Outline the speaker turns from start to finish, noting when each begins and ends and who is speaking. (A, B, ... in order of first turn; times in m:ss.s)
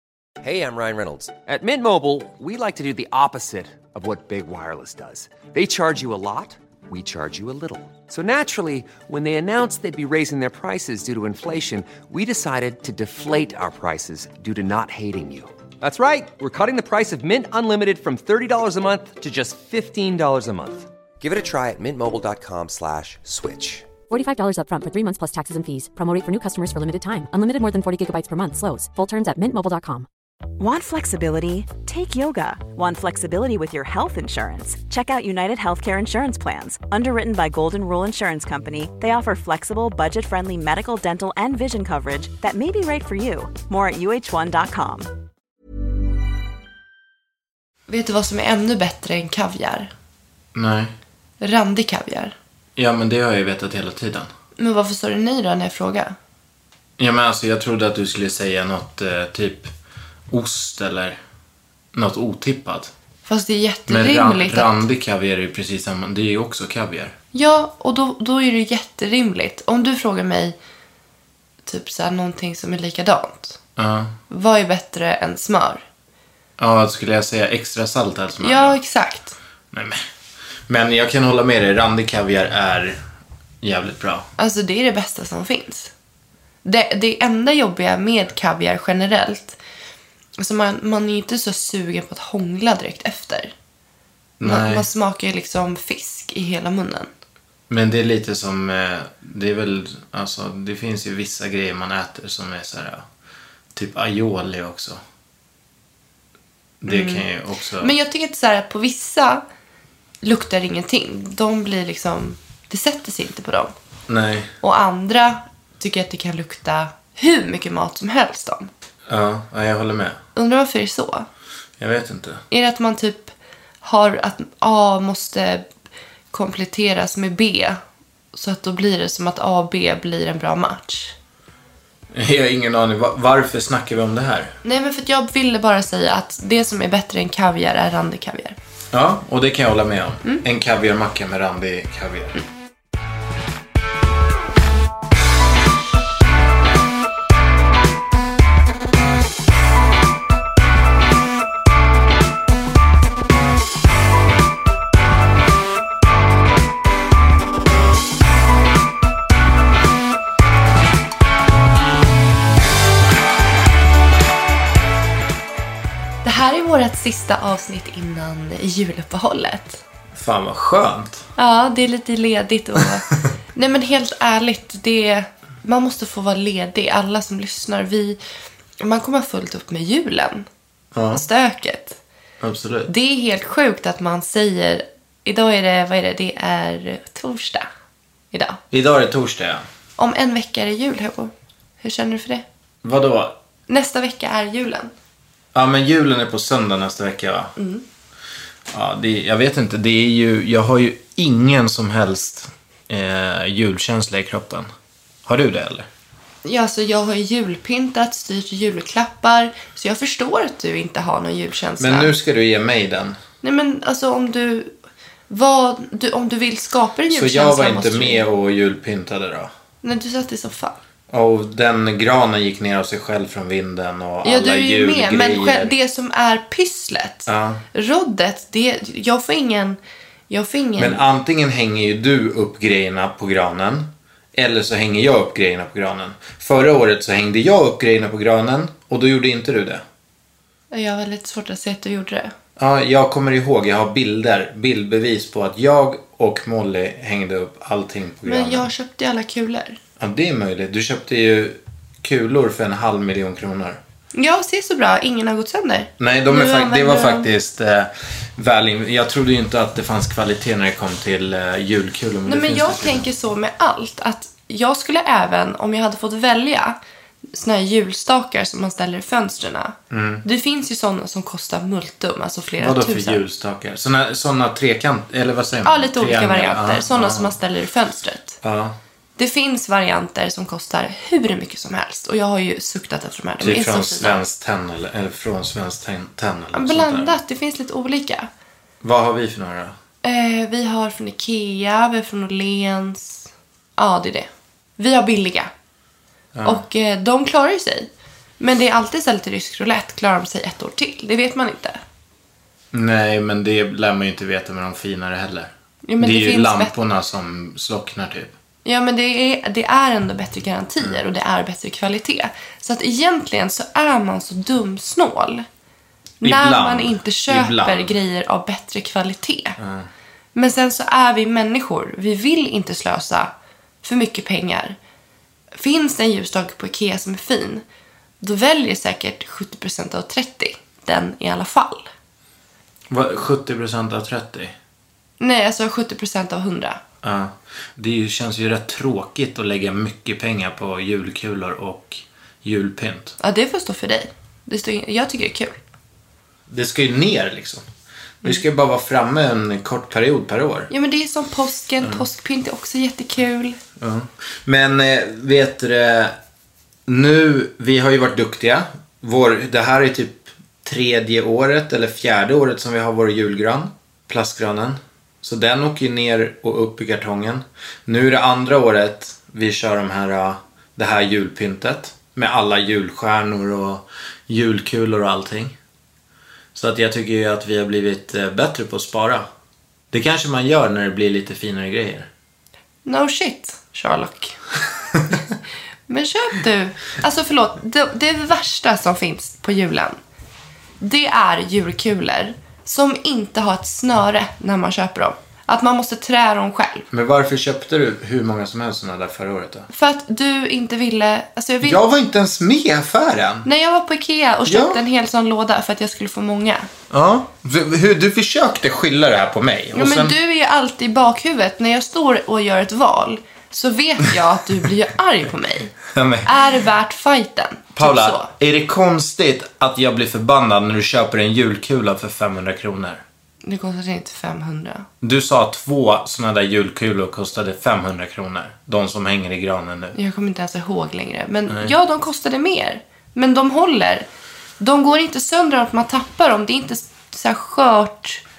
0:00.4-0:23.9 A
0:24.1-0:30.1 B
0:30.6-0:45.1 C
0:47.9-0:49.9 D
0:50.5-0:50.9 E
0:51.4-0:52.4 D
0:52.8-0:54.3 E
0:54.6-0:56.2 D
0:57.0-0:59.7 E
1:00.3-1:01.2 E
1:01.9-1:02.9 E
1:03.3-1:04.8 D
1:03.9-1:07.2 E
1:07.3-1:10.6 D
1:11.7-1:13.6 D
1:13.8-1:14.2 E
1:14.3-1:15.8 D
1:16.6-1:18.8 E
1:18.4-1:19.4 D
1:19.7-1:20.0 E
1:20.7-1:23.0 E
1:23.6-1:24.3 E
1:24.4-1:25.9 D
1:26.6-1:29.6 D
1:30.4-1:33.5 D
1:34.4-1:34.9 E
1:34.4-1:37.1 D
1:37.7-1:43.1 E
1:43.7-1:45.0 E
1:46.8-1:47.9 E
1:46.9-1:47.3 D
1:47.8-1:49.4 D
1:50.2-1:53.7 D
1:54.1-1:54.5 E
1:54.6-1:58.7 D
1:59.1-2:00.2 E
2:00.4-2:01.3 D
2:01.8-2:02.4 E
2:02.5-2:03.3 D
2:03.8-2:05.7 D
2:06.3-2:07.8 D
2:08.3-2:11.1 D
2:12.1-2:14.6 E
2:14.6-2:18.6 D
2:18.9-2:22.4 E
2:46.2-2:49.8 D
2:50.1-2:51.3 E
2:51.4-2:58.2 D
2:58.8-3:00.5 D
3:01.0-3:01.2 E
3:01.1-3:02.0 D
3:02.4-3:02.9 E
3:02.9-3:07.7 D
3:08.3-3:08.6 D
3:08.7-3:09.6 E
3:10.0-3:12.4 D
3:12.8-3:13.4 E
3:13.7-3:14.9 D
3:15.5-3:17.5 E
3:17.6-3:17.8 D
3:18.7-3:24.7 E
3:25.3-3:25.9 E
3:26.4-3:32.1 D
3:31.8-3:33.2 E
3:33.4-3:34.7 D
3:35.3-3:38.2 D
3:37.1-3:39.5 E
3:39.8-3:40.8 D
3:41.1-3:45.7 E
3:44.2-3:49.8 D
3:47.3-3:47.6 E
3:50.3-3:51.0 D
3:50.8-3:59.8 E
4:00.7-4:02.3 D
4:02.6-4:08.7 E
4:08.2-4:09.8 D
4:10.0-4:13.8 E
4:14.1-4:17.3 D
4:16.0-4:23.1 E
4:22.3-4:26.8 D
4:27.3-4:33.2 D
4:29.9-4:30.2 E
4:32.6-4:37.4 E
4:35.6-4:38.4 D
4:38.4-4:38.8 E
4:39.2-4:44.2 D
4:43.4-4:47.2 E
4:46.5-4:48.3 D
4:48.8-4:49.8 E
4:50.0-4:55.5 D
4:56.3-4:56.7 E
4:56.4-5:01.8 D
5:02.7-5:08.4 E
5:05.8-5:06.7 D
5:08.6-5:15.5 D
5:16.2-5:18.0 E
5:16.2-5:19.6 D
5:19.6-5:19.9 E
5:20.4-5:23.3 D
5:23.8-5:24.8 D
5:25.6-5:27.6 D
5:28.2-5:31.9 D
5:32.9-5:34.6 E
5:35.2-5:36.8 D
5:37.0-5:43.2 E
5:43.2-5:45.6 D
5:46.5-5:47.6 E
5:48.2-5:50.7 E
5:50.7-5:53.6 D
5:53.8-5:56.1 E
5:56.9-6:15.6 E
6:16.6-6:19.3 E
6:19.9-6:22.1 E
6:22.8-6:24.4 D
6:25.9-6:30.0 D
6:30.8-6:36.9 D
6:36.9-6:39.7 E
6:39.7-6:41.8 D
6:41.6-6:43.5 E
6:43.4-6:46.7 D
6:44.5-6:44.8 E
6:46.9-6:50.2 E
6:49.7-6:55.8 D
6:55.9-6:56.4 E
6:56.3-6:58.3 D
6:57.8-7:03.0 E
7:03.4-7:04.9 D
7:05.0-7:10.0 E
7:10.0-7:14.1 D
7:11.5-7:11.8 E
7:14.6-7:18.2 D